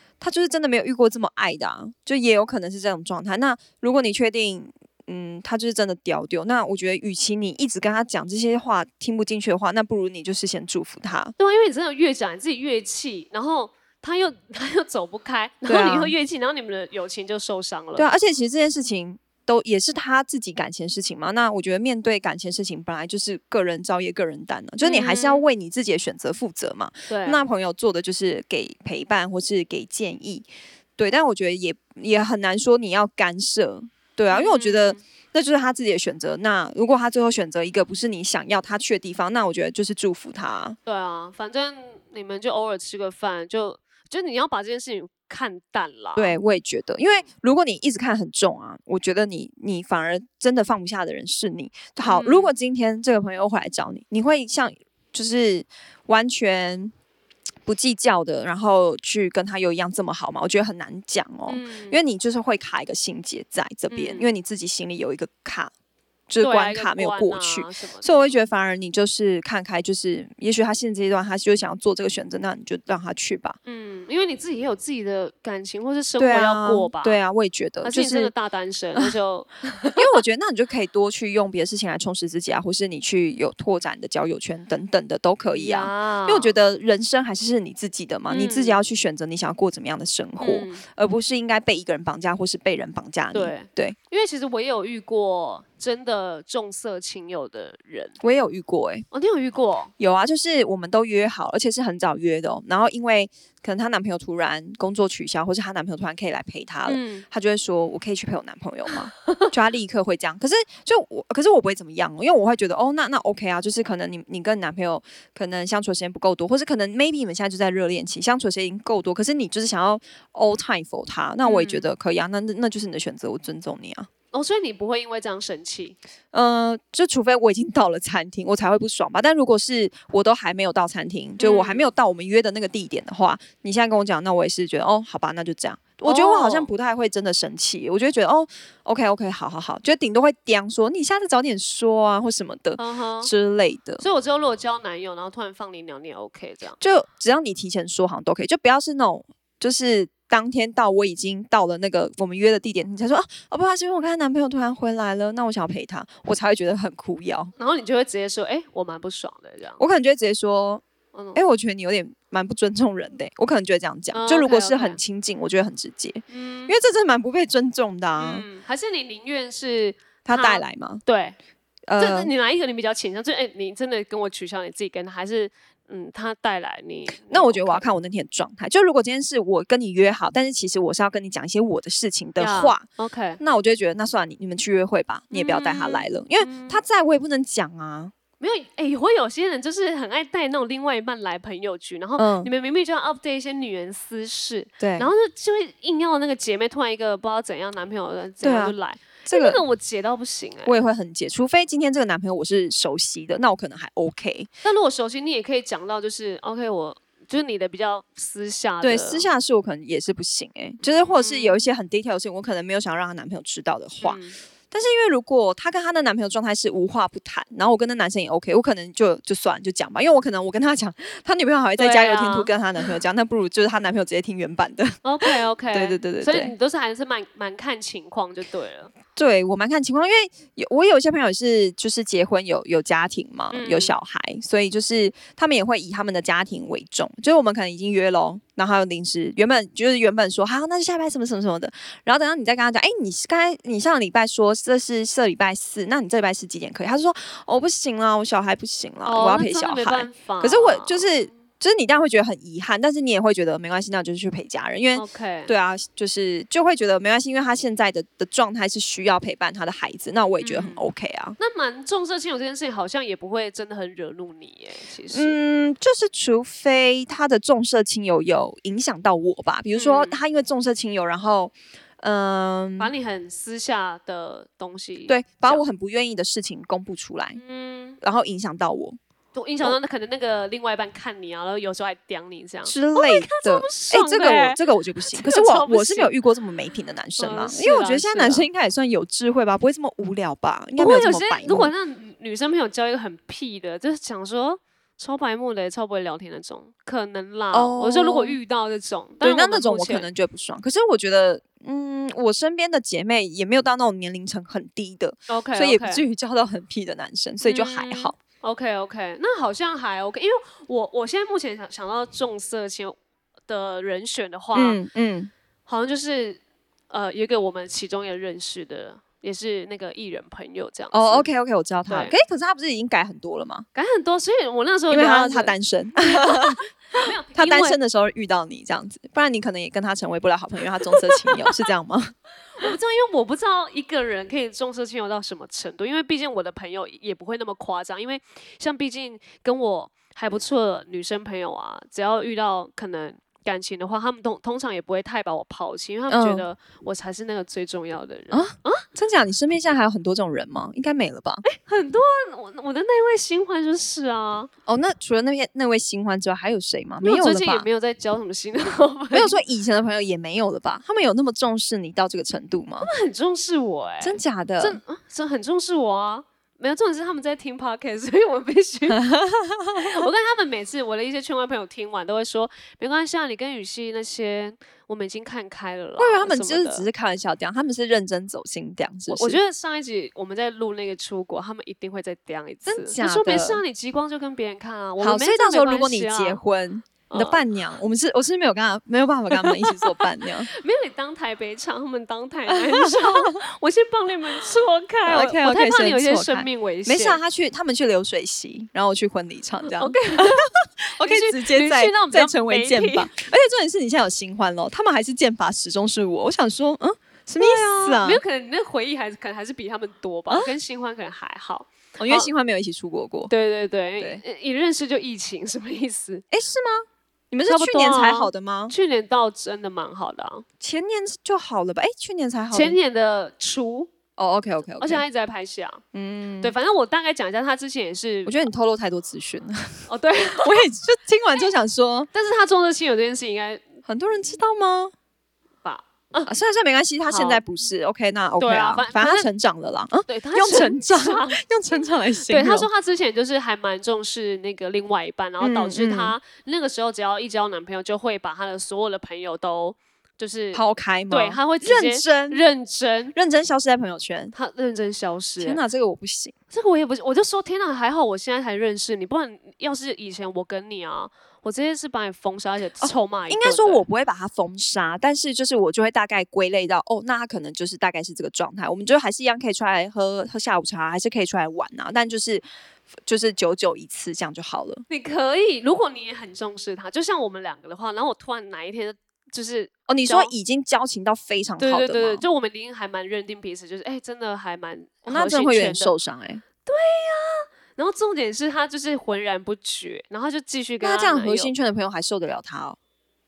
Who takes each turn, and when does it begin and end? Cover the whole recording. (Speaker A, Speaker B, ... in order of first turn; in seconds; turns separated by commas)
Speaker A: 0.2-11.3, Speaker B: 11.4-18.1, Speaker A: 15.7-16.1, Speaker A: 18.0-30.5, Speaker B: 24.8-25.5, Speaker B: 27.1-27.5, Speaker A: 31.0-40.8, Speaker B: 34.3-35.0, Speaker B: 40.9-46.4, Speaker A: 46.2-56.9, Speaker B: 52.0-52.5, Speaker A: 57.7-65.7, Speaker B: 61.5-62.0, Speaker B: 63.9-64.3, Speaker A: 66.3-73.6, Speaker B: 66.4-68.4, Speaker B: 73.7-77.2, Speaker A: 76.2-78.3, Speaker B: 77.8-80.1, Speaker A: 80.0-94.0, Speaker B: 85.5-86.5, Speaker B: 88.3-88.8, Speaker B: 90.4-90.8, Speaker B: 93.3-98.2, Speaker A: 98.2-99.1, Speaker B: 99.1-99.9, Speaker A: 100.0-124.1, Speaker B: 106.9-107.2, Speaker B: 121.4-121.9, Speaker B: 124.3-126.0, Speaker A: 126.3-144.0, Speaker B: 131.4-131.9, Speaker B: 136.0-136.7, Speaker B: 142.8-143.3, Speaker B: 144.0-146.8, Speaker A: 146.8-157.5, Speaker B: 157.6-159.8, Speaker A: 159.8-160.8, Speaker B: 161.1-161.4, Speaker A: 161.3-168.5, Speaker B: 164.1-165.0, Speaker B: 166.3-166.8, Speaker B: 168.2-171.4, Speaker A: 170.2-171.0, Speaker A: 171.9-172.3, Speaker B: 172.0-177.9, Speaker A: 177.3-182.8, Speaker B: 182.4-183.4, Speaker A: 183.4-188.1, Speaker B: 185.3-186.8, Speaker B: 188.4-200.8, Speaker A: 192.2-192.5, Speaker A: 194.8-195.1, Speaker A: 198.4-199.6, Speaker A: 200.7-204.5, Speaker B: 204.6-209.3, Speaker A: 208.8-214.2, Speaker B: 211.0-211.6, Speaker B: 214.0-214.4, Speaker A: 214.7-226.5, Speaker B: 221.8-222.5, Speaker B: 225.0-228.9, Speaker A: 229.2-261.4, Speaker B: 233.5-233.9, Speaker B: 249.0-251.1, Speaker B: 254.9-255.5, Speaker B: 260.4-260.8, Speaker B: 261.4-265.4, Speaker A: 265.1-272.9, Speaker B: 269.8-270.2, Speaker B: 272.8-275.6, Speaker A: 275.1-277.4, Speaker B: 277.4-278.0, Speaker A: 278.0-279.0, Speaker B: 279.4-286.1, Speaker A: 282.7-291.7, Speaker B: 287.2-288.4, Speaker B: 290.8-300.1, Speaker A: 297.5-298.4, Speaker A: 299.2-308.2, Speaker B: 305.3-306.0, Speaker B: 307.4-313.0, Speaker B: 313.5-314.8, Speaker A: 314.6-315.3, Speaker B: 315.7-321.3, Speaker A: 320.9-323.7, Speaker B: 321.9-322.1, Speaker B: 323.8-327.8, Speaker A: 324.9-326.6, Speaker A: 327.4-332.1, Speaker B: 330.8-331.6, Speaker B: 332.6-348.9, Speaker A: 346.1-346.5, Speaker A: 348.3-351.4, Speaker B: 351.4-354.5, Speaker A: 354.7-357.7, Speaker B: 357.0-359.4, Speaker A: 359.1-362.9, Speaker B: 362.8-369.0, Speaker A: 364.0-364.8, Speaker A: 368.9-370.1, Speaker B: 369.8-376.9, Speaker A: 376.0-379.4, Speaker B: 379.1-386.4, Speaker A: 382.7-383.6, Speaker A: 385.0-390.5, Speaker B: 387.1-387.4, Speaker B: 389.3-397.2, Speaker A: 392.5-393.3, Speaker A: 395.1-408.2, Speaker B: 399.7-400.5, Speaker B: 401.0-403.1, Speaker B: 407.4-412.3, Speaker A: 412.0-413.3, Speaker B: 413.3-416.2, Speaker A: 416.3-418.7, Speaker B: 417.5-420.5, Speaker A: 420.6-422.8, Speaker B: 422.5-423.9, Speaker A: 424.2-425.0, Speaker B: 424.8-425.8, Speaker A: 425.9-426.6, Speaker B: 426.4-428.4, Speaker A: 428.3-429.9, Speaker B: 429.9-430.6, Speaker A: 430.4-432.1, Speaker B: 432.1-433.7, Speaker A: 433.9-434.9, Speaker B: 435.6-436.3, Speaker A: 436.3-442.7, Speaker B: 437.1-437.4, Speaker B: 438.4-439.3, Speaker B: 440.1-441.4, Speaker B: 442.2-453.1, Speaker A: 445.4-446.2, Speaker A: 450.5-452.4, Speaker A: 453.1-454.3, Speaker B: 454.3-455.6, Speaker A: 455.4-456.3, Speaker B: 456.5-463.8, Speaker A: 462.8-472.4, Speaker A: 473.1-474.8, Speaker B: 474.9-480.3, Speaker A: 479.9-482.2, Speaker B: 481.6-485.9, Speaker A: 485.1-486.4, Speaker B: 486.7-491.5, Speaker A: 490.8-492.8